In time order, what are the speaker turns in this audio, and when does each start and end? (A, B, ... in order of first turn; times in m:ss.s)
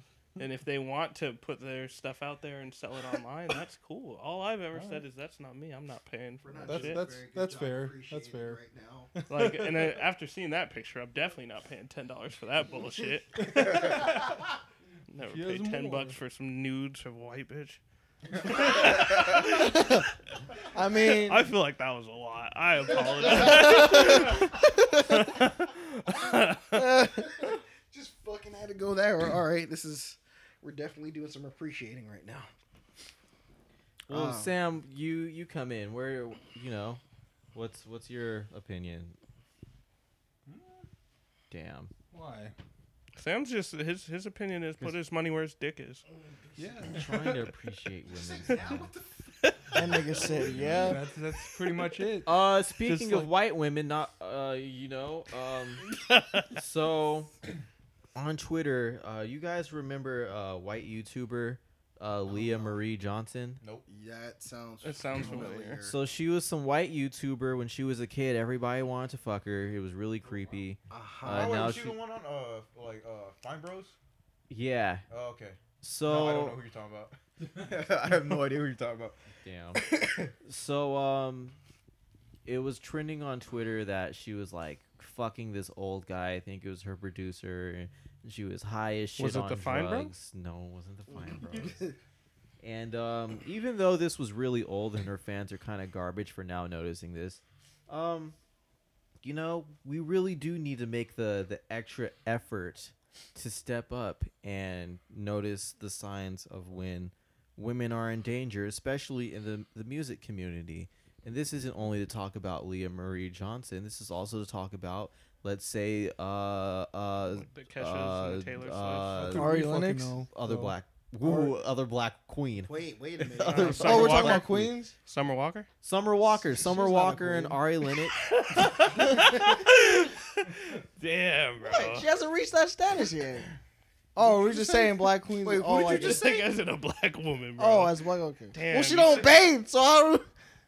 0:00.4-0:07.0 A
0:04.7-0:05.0 B
0:06.4-0:09.1 C
0:06.6-0:08.6 B
0:09.2-0:10.0 B
0:09.3-0:14.1 A
0:13.4-0:14.3 B
0:15.1-0:17.8 A
0:15.2-0:16.2 B
0:18.4-0:19.9 A
0:19.4-0:20.0 D
0:20.7-0:21.5 D
0:21.0-0:26.9 A
0:23.3-0:25.2 D
0:26.7-0:27.4 D
0:27.2-0:32.5 C
0:34.1-0:37.0 E
0:34.1-0:34.4 D
0:37.5-0:39.2 E
0:40.5-0:40.8 B
0:41.5-0:41.9 E
0:42.1-0:42.5 B
0:43.2-0:46.0 A
0:46.1-0:47.0 C
0:46.6-0:47.4 B
0:46.9-0:48.9 E
0:48.1-0:49.7 C
0:49.7-0:51.1 D
0:50.5-0:50.9 F
0:50.8-0:52.4 B
0:52.2-0:56.0 E
0:52.9-0:53.3 A
0:56.0-0:56.5 A
0:56.6-0:57.3 E
0:58.1-1:03.6 E
1:02.4-1:02.8 C
1:03.9-1:06.0 C
1:04.8-1:05.8 A
1:05.8-1:12.0 E
1:10.9-1:11.7 C
1:11.3-1:14.0 F
1:14.5-1:15.0 E
1:15.1-1:19.2 F
1:15.8-1:16.6 E
1:19.4-1:19.9 E
1:20.4-1:21.6 E
1:22.4-1:32.0 E
1:29.2-1:30.1 A
1:32.6-1:38.4 E
1:39.2-1:59.6 E
1:57.3-1:59.3 A
1:59.1-2:00.8 B
1:59.4-2:00.3 D
2:00.3-2:02.7 E
2:01.2-2:01.5 C
2:02.6-2:04.4 C
2:03.4-2:05.7 A
2:03.5-2:04.9 D
2:04.3-2:04.7 E
2:05.8-2:08.2 E
2:06.4-2:07.6 D
2:08.3-2:12.1 A
2:11.6-2:13.5 D
2:14.1-2:16.3 D
2:14.2-2:16.5 C
2:15.9-2:18.0 A
2:17.6-2:20.3 D
2:18.5-2:19.4 A